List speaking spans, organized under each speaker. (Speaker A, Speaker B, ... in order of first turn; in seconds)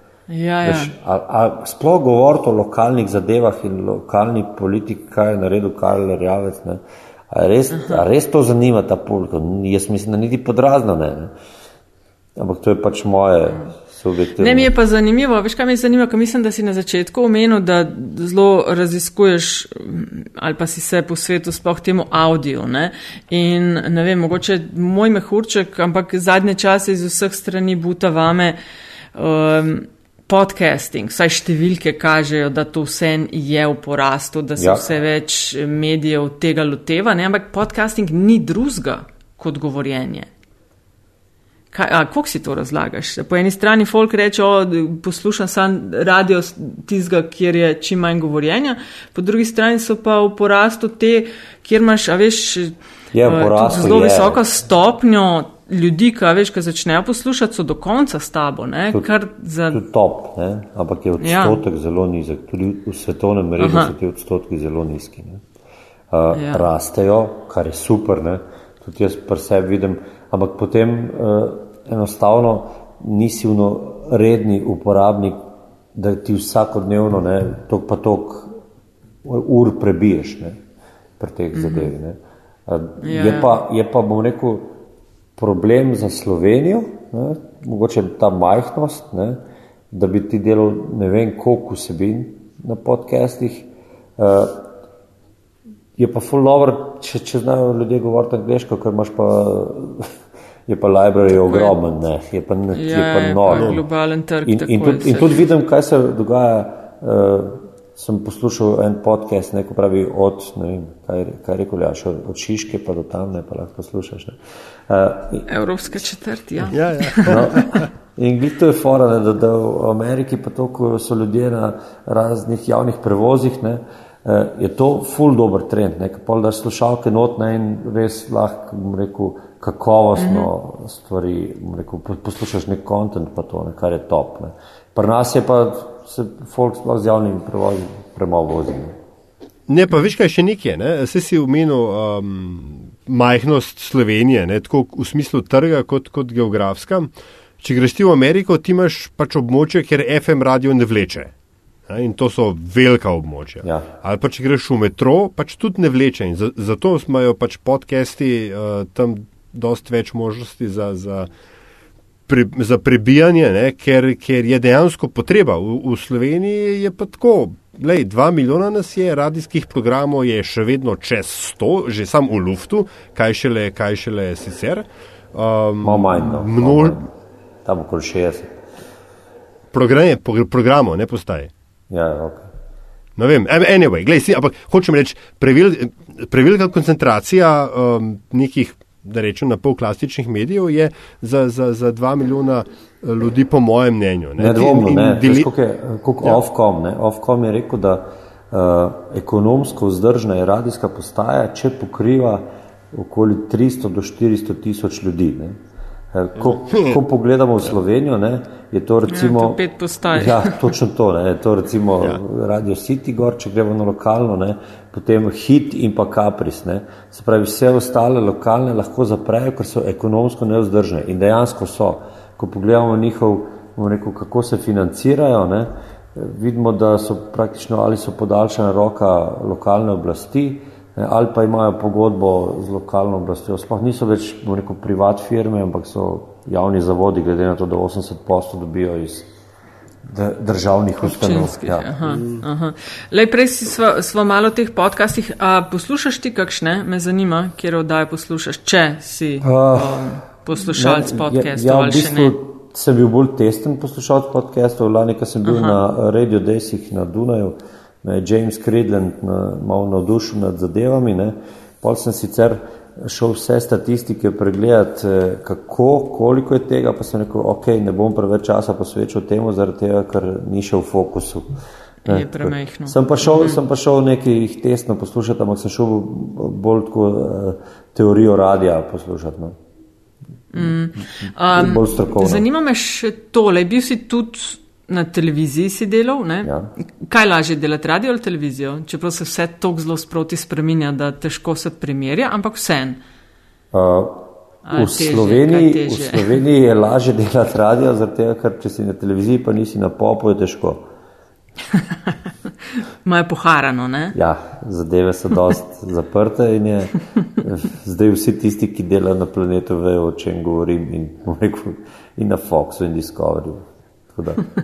Speaker A: 0.3-0.9, 7.7-8.0, 14.4-28.6, 29.1-40.3, 41.7-59.8, 61.2-61.6, 63.6-63.9, 66.3-66.6, 81.5-81.9, 83.0-83.6, 101.3-101.8, 102.7-105.4, 115.5-117.6, 130.2-130.5, 209.1-210.7, 241.0-252.3, 255.4-255.8, 272.0-273.6, 280.5-293.0, 294.6-296.4, 301.7-302.1, 302.8-304.1
Speaker B: 0.6-11.3, 12.3-14.7, 34.6-34.8, 53.1-54.4, 59.7-65.4, 66.1-75.4, 75.9-78.5, 79.2-80.6, 81.2-84.7, 85.4-89.4, 89.9-94.7, 96.0-100.1, 100.7-103.8, 104.4-114.4, 114.9-115.5, 117.2-138.9, 175.8-177.0, 177.6-178.6, 181.9-182.5, 194.4-205.6, 206.1-209.6, 210.1-239.3, 240.1-242.2, 249.4-271.5, 272.1-279.6, 280.6-282.4, 286.4-286.7, 293.7-300.9, 304.1-314.4
Speaker C: 103.5-103.8, 116.7-117.9, 139.7-151.3, 151.9-161.3, 162.3-177.1, 179.7-181.5, 183.2-195.5, 206.4-207.0